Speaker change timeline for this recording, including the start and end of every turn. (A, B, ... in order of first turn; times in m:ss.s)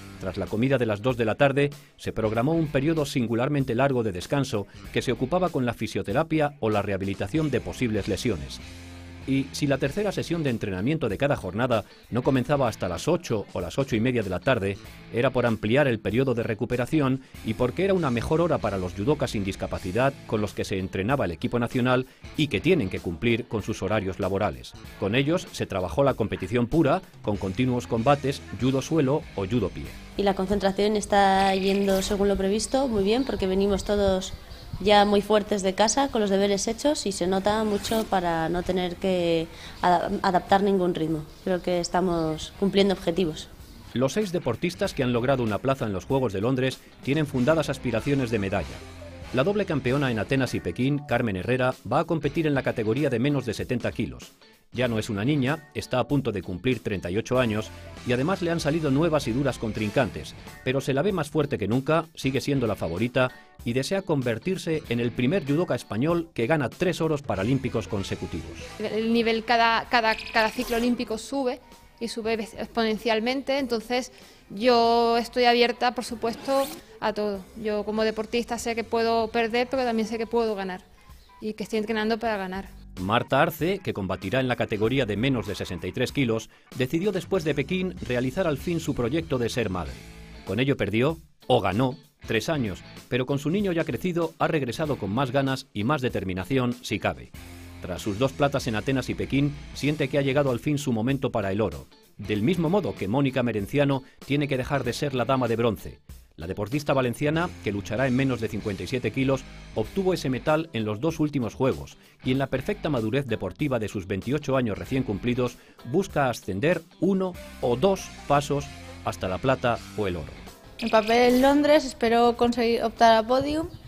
0:00.2-0:08.6 A
0:09.2-0:30.0 A
0:30.2-0:43.5 B
0:43.9-1:08.7 A
1:08.8-1:20.8 C
1:21.4-1:22.7 C
1:23.0-2:00.4 A
2:00.8-2:03.7 D